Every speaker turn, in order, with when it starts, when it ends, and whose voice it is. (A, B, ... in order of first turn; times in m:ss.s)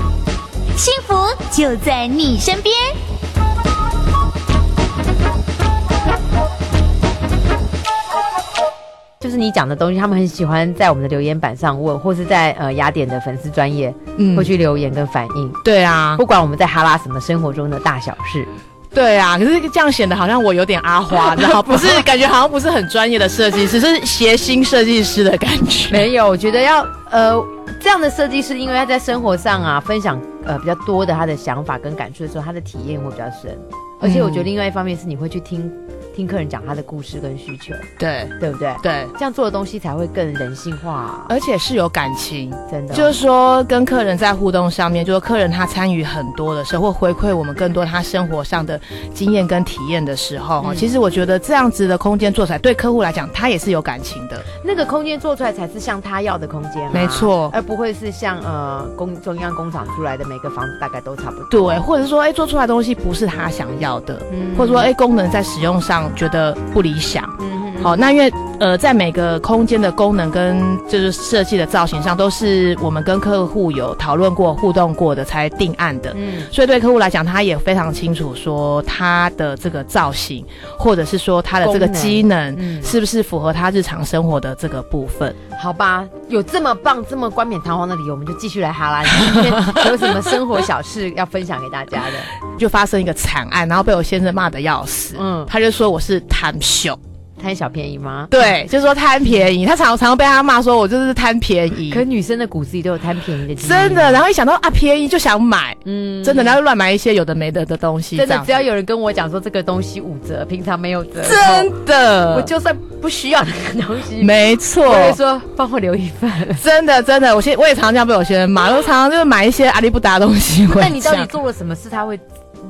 0:00.8-0:02.9 A
0:09.2-0:15.6 B
0:14.2-0:14.5 C
0:15.6-0:16.2 C
0:16.2-0:18.5 B
0:18.9-0:26.1 C
0:21.1-0:22.0 B
0:25.9-0:37.9 B
0:34.0-0:34.5 C
0:38.0-0:39.1 C
0:38.4-0:41.3 B
0:41.3-0:54.4 C
0:42.7-0:43.2 B
0:50.6-0:50.9 B
0:54.6-1:01.8 B
0:56.9-0:57.5 C
1:01.5-1:25.4 C
1:04.3-1:04.9 B
1:07.4-1:08.0 B
1:16.1-1:16.5 B
1:21.6-1:23.0 B
1:25.6-1:32.3 B
1:29.1-1:30.1 C
1:32.5-1:37.0 C
1:35.1-1:35.5 B
1:37.4-1:38.5 B
1:38.3-1:42.0 C
1:41.9-1:44.2 B
1:43.6-1:48.6 C
1:45.8-1:46.6 B
1:48.1-1:51.8 B
1:51.2-1:52.5 C
1:52.3-1:56.6 B
1:54.2-1:55.2 C
1:56.6-2:01.4 C
2:00.7-2:02.2 B